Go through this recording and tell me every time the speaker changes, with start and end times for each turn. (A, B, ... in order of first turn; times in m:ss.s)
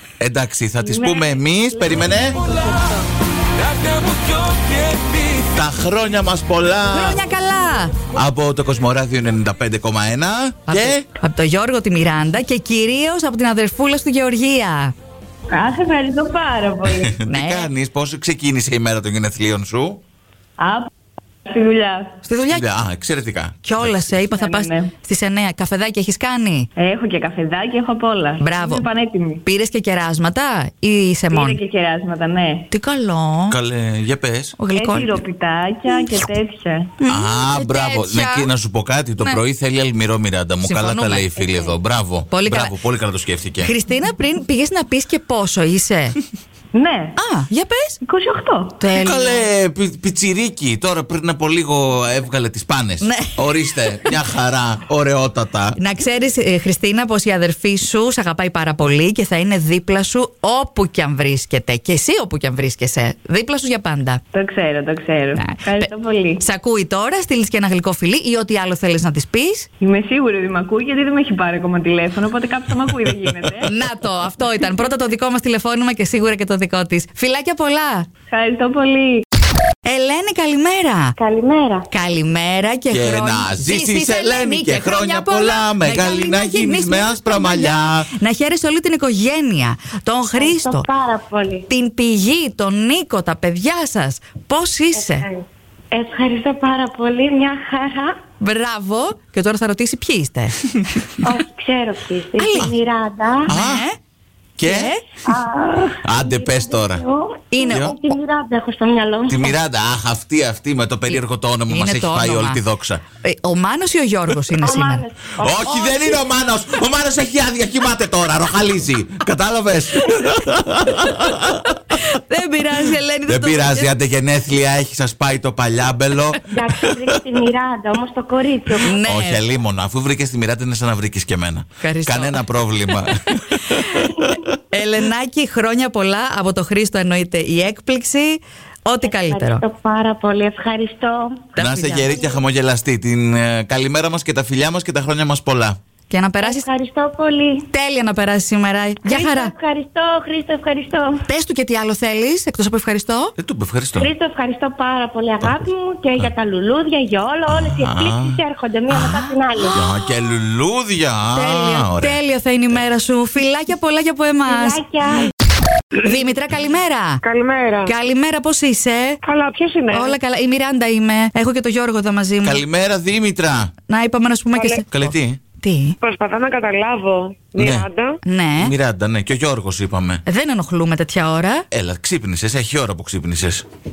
0:00.2-0:02.4 A
0:00.8-0:03.0 B
0:03.9-0:04.6 A
0:05.4-0:07.2 A
0:06.9-0:08.0 C
0:08.1-0:11.1 A
0:10.7-0:14.9 C
0:15.5-0:17.2 B
0:17.0-0:20.0 A
0:17.3-0:17.7 C
0:20.6-0:20.9 B
0:21.5-0:22.2 B
0:22.2-0:22.6 C
0:22.5-0:24.2 A
0:23.6-0:26.7 C
0:24.3-0:24.9 B
0:26.8-0:29.4 B
0:28.4-0:28.9 C
0:29.4-0:31.6 C
0:31.3-0:32.7 B
0:32.7-0:33.6 C
0:33.5-0:34.6 A
0:34.6-0:35.2 C
0:34.7-0:36.9 B
0:35.9-0:36.2 C
0:37.0-0:38.5 C
0:37.1-0:43.7 A
0:40.6-0:41.8 C
0:42.3-0:42.7 C
0:43.6-0:46.2 C
0:46.7-0:47.2 B
0:47.2-0:48.0 C
0:48.0-0:48.8 B
0:48.8-0:49.5 C
0:49.0-0:55.8 A
0:53.0-0:53.5 C
0:55.8-1:04.2 C
1:04.3-1:06.4 B
1:05.4-1:09.7 C
1:09.8-1:13.7 B
1:13.6-1:18.1 C
1:18.3-1:19.2 B
1:19.8-1:21.3 C
1:21.2-1:21.8 D
1:21.9-1:35.3 C
1:22.9-1:28.1 A
1:30.4-1:31.6 D
1:35.9-1:38.1 D
1:38.4-1:41.5 C
1:41.6-1:43.4 D
1:42.3-1:42.8 C
1:43.3-1:44.0 C
1:43.5-1:43.9 A
1:44.6-1:45.0 A
1:44.6-1:45.2 C
1:46.0-1:47.0 A
1:46.3-1:47.3 D
1:47.5-1:48.1 C
1:47.7-1:48.0 A
1:47.9-1:49.4 D
1:49.3-1:53.0 A
1:51.7-1:52.6 C
1:53.2-1:56.2 C
1:54.7-1:55.0 D
1:55.4-2:01.8 A
2:02.0-2:03.9 C
2:03.3-2:07.2 A
2:08.7-2:09.4 C
2:08.7-2:14.5 A
2:11.8-2:13.1 C
2:13.7-2:14.0 C
2:14.7-2:19.6 C
2:19.2-2:21.4 D
2:21.5-2:22.4 C
2:21.6-2:25.8 A
2:26.1-2:26.8 C
2:26.9-2:27.6 D
2:27.6-2:29.6 C
2:29.1-2:31.2 D
2:31.2-2:33.4 C
2:33.4-2:34.1 A
2:34.0-2:39.8 D
2:35.4-2:36.3 A
2:37.5-2:42.2 A
2:41.4-2:45.0 C
2:44.5-2:45.3 D
2:46.0-2:47.2 C
2:47.2-2:47.9 E
2:47.8-2:49.2 C
2:49.2-2:50.2 E
2:49.9-2:52.6 C
2:52.4-2:53.7 A
2:53.9-2:56.0 C
2:54.5-2:54.8 E
2:54.9-2:55.4 A
2:56.0-2:58.2 E
2:57.6-2:57.9 A
2:58.2-2:58.7 C
2:58.6-3:00.2 A
3:00.3-3:01.7 C
3:01.7-3:03.6 A